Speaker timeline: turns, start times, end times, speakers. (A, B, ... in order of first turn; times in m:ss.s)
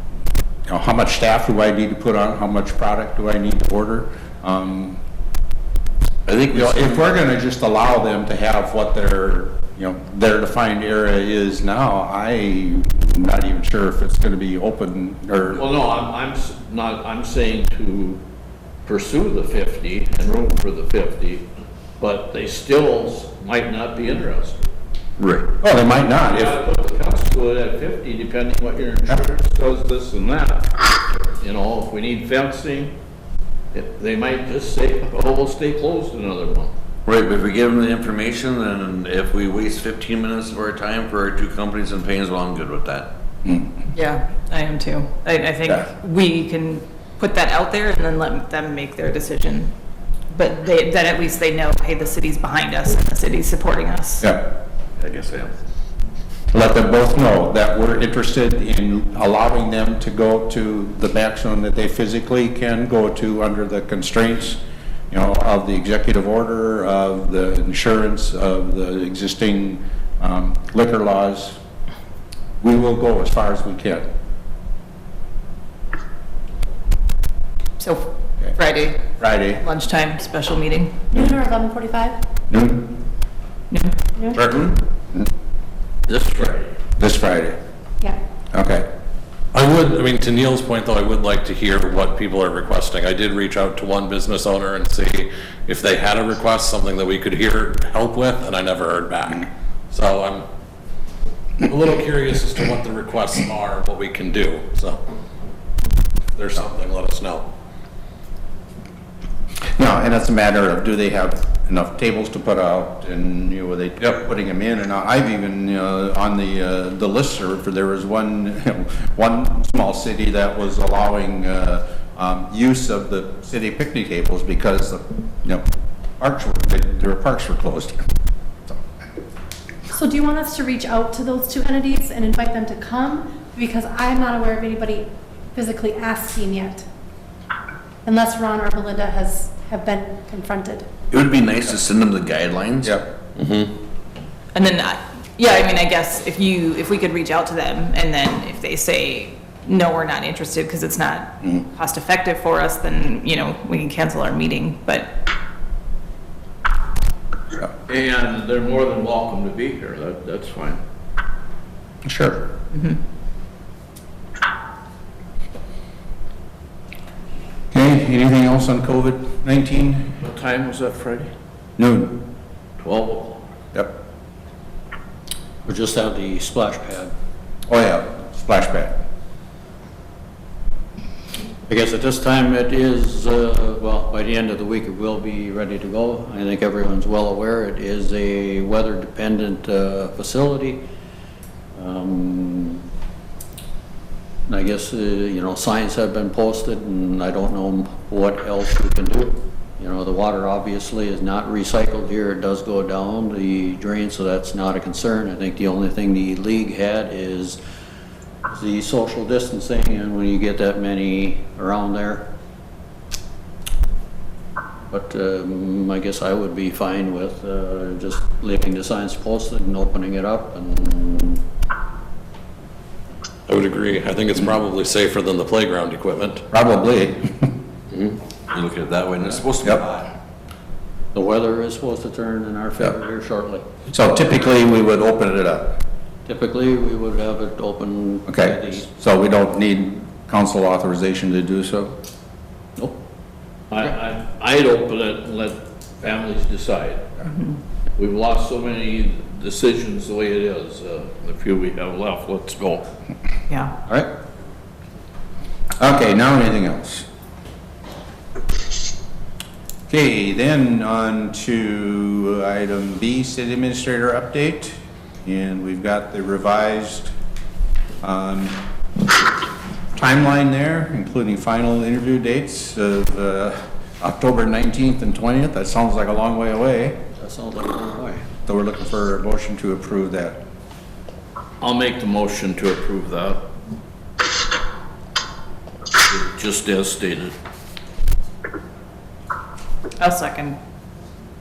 0:00.7-0:05.0 A
0:06.3-0:07.0 B
0:06.5-0:15.6 A
0:15.6-0:18.2 C
0:18.8-0:21.4 C
0:22.0-0:24.6 C
0:25.6-0:26.6 A
0:26.2-0:32.9 C
0:33.7-0:36.7 C
0:37.0-0:43.1 B
0:43.9-0:49.7 D
0:50.3-0:54.2 D
0:54.2-0:54.5 A
0:55.0-0:55.5 C
0:56.5-1:04.6 A
1:05.1-1:11.6 A
1:12.6-1:14.0 A
1:17.8-1:21.0 D
1:19.2-1:19.6 A
1:21.1-1:22.2 E
1:22.5-1:23.0 A
1:24.4-1:25.3 A
1:26.1-1:26.7 C
1:27.0-1:27.6 A
1:28.5-1:28.8 A
1:29.5-1:40.4 F
1:41.6-1:45.0 F
1:46.4-1:47.4 F
1:49.8-2:05.6 A
2:06.2-2:08.0 A
2:09.9-2:16.8 E
2:18.0-2:20.9 E
2:21.1-2:23.7 B
2:24.5-2:35.1 D
2:37.9-2:40.8 C
2:42.0-2:42.4 A
2:42.7-2:43.0 D
2:47.7-2:50.1 A
2:50.2-2:51.3 C
2:51.8-2:52.2 A
2:52.8-2:53.4 C
2:55.6-2:57.1 G
2:57.7-2:58.9 A
3:01.7-3:10.8 G
3:11.7-3:12.8 G
3:14.5-3:27.6 G
3:28.5-3:32.3 G
3:34.9-3:41.4 G
3:43.5-3:46.4 F
3:46.5-3:47.5 A
3:47.9-3:50.1 B
3:51.1-3:53.6 G
3:53.9-3:55.8 A
3:56.2-3:58.8 G
3:58.3-4:01.9 A
4:03.7-4:07.1 C
4:07.3-4:07.6 D
4:08.0-4:12.9 C
4:15.8-4:17.0 A
4:19.9-4:27.1 A
4:28.0-4:28.6 A
4:29.9-4:37.0 A
4:37.2-4:38.2 G
4:38.4-4:40.4 A
4:41.6-4:43.4 C
4:46.0-4:47.3 C
4:50.0-4:50.6 D